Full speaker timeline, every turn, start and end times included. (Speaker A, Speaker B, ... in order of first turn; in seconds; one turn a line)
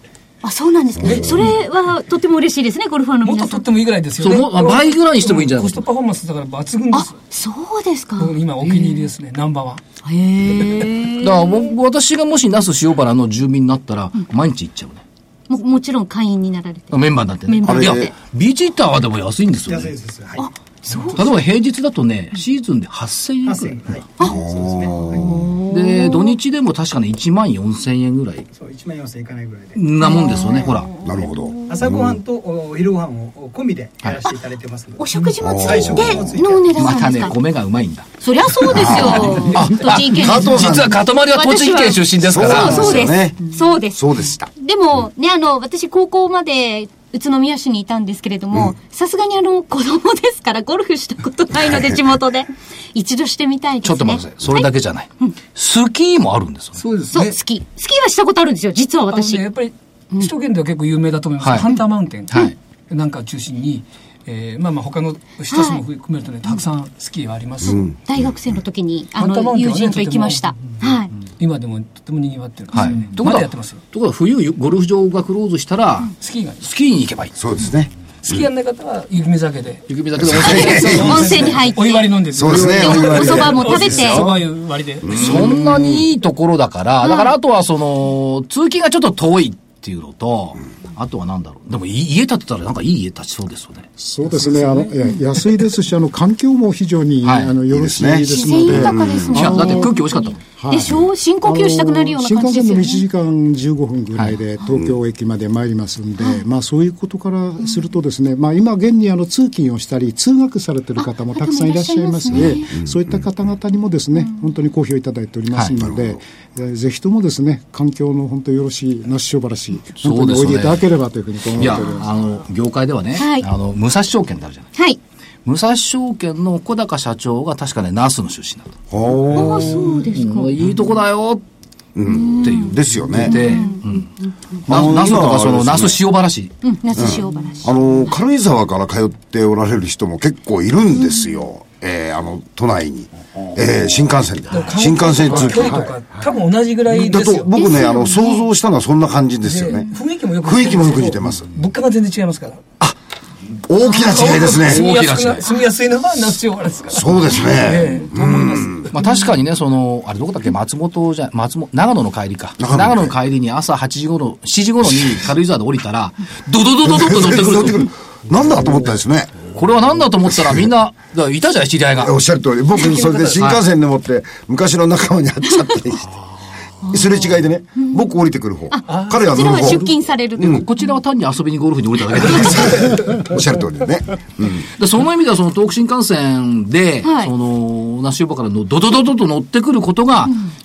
Speaker A: 0.4-3.6
Speaker B: 1.0-1.4
Speaker B: 3.2-7.2
Speaker C: 4.2-5.9
Speaker A: 6.9-9.1
Speaker B: 8.2-9.8
Speaker A: 10.1-11.7
Speaker C: 11.2-15.0
Speaker A: 15.5-18.1
Speaker C: 16.9-19.9
Speaker D: 17.6-18.1
Speaker E: 19.7-21.2
Speaker A: 20.4-21.3
Speaker C: 21.1-24.0
Speaker E: 23.4-25.4
Speaker D: 24.2-25.4
Speaker A: 25.1-26.4
Speaker C: 25.7-28.5
Speaker E: 28.6-29.9
Speaker C: 29.8-30.9
Speaker A: 30.0-31.7
Speaker D: 31.0-32.2
Speaker E: 31.7-37.0
Speaker A: 35.0-37.4
Speaker D: 35.4-36.3
Speaker C: 36.7-38.1
Speaker A: 38.2-40.8
Speaker B: 38.6-39.8
Speaker C: 38.7-43.1
Speaker D: 38.7-41.0
Speaker A: 41.3-55.4
Speaker D: 42.2-44.5
Speaker C: 53.8-56.8
Speaker B: 56.8-57.4
Speaker A: 57.1-59.4
Speaker B: 59.1-67.8
Speaker C: 61.4-61.7
Speaker A: 65.5-65.8
Speaker D: 67.6-68.3
Speaker A: 68.0-71.1
Speaker B: 69.2-70.6
Speaker B: 71.4-73.8
Speaker C: 72.7-77.3
Speaker B: 76.2-76.7
Speaker D: 77.4-78.5
Speaker B: 78.2-85.6
Speaker C: 79.9-81.6
Speaker D: 80.2-81.6
Speaker A: 80.4-82.1
Speaker D: 82.3-84.4
Speaker A: 82.6-84.3
Speaker D: 85.0-86.0
Speaker C: 85.1-93.9
Speaker A: 87.0-87.3
Speaker F: 94.0-99.9
Speaker C: 97.2-97.6
Speaker D: 97.7-99.6
Speaker A: 98.2-103.0
Speaker C: 99.3-100.4
Speaker F: 100.6-122.1
Speaker A: 111.0-112.7
Speaker D: 112.3-113.2
Speaker D: 115.8-116.2
Speaker C: 120.0-120.9
Speaker C: 121.6-124.7
Speaker A: 123.2-123.5
Speaker C: 125.5-128.8
Speaker D: 128.9-129.8
Speaker A: 129.3-130.6
Speaker C: 129.3-131.4
Speaker D: 132.0-133.3
Speaker A: 132.1-134.1
Speaker C: 132.4-134.1
Speaker D: 134.7-136.0
Speaker C: 134.7-136.6
Speaker A: 136.6-138.1
Speaker D: 136.9-145.9
Speaker B: 144.5-147.5
Speaker D: 146.9-149.9
Speaker A: 147.6-148.5
Speaker B: 149.4-152.6
Speaker D: 150.4-151.5
Speaker D: 153.7-154.9
Speaker B: 153.8-158.9
Speaker C: 154.6-155.5
Speaker D: 156.9-158.9
Speaker C: 158.9-167.9
Speaker D: 162.6-163.1
Speaker D: 166.8-169.4
Speaker C: 169.5-172.2
Speaker D: 172.0-176.1
Speaker B: 172.8-173.5
Speaker C: 173.3-173.6
Speaker D: 176.9-180.6
Speaker A: 176.9-177.2
Speaker A: 177.8-178.0
Speaker A: 178.7-180.7
Speaker B: 178.9-179.7
Speaker C: 180.5-182.9
Speaker D: 182.6-184.7
Speaker C: 184.8-190.4
Speaker A: 187.0-187.3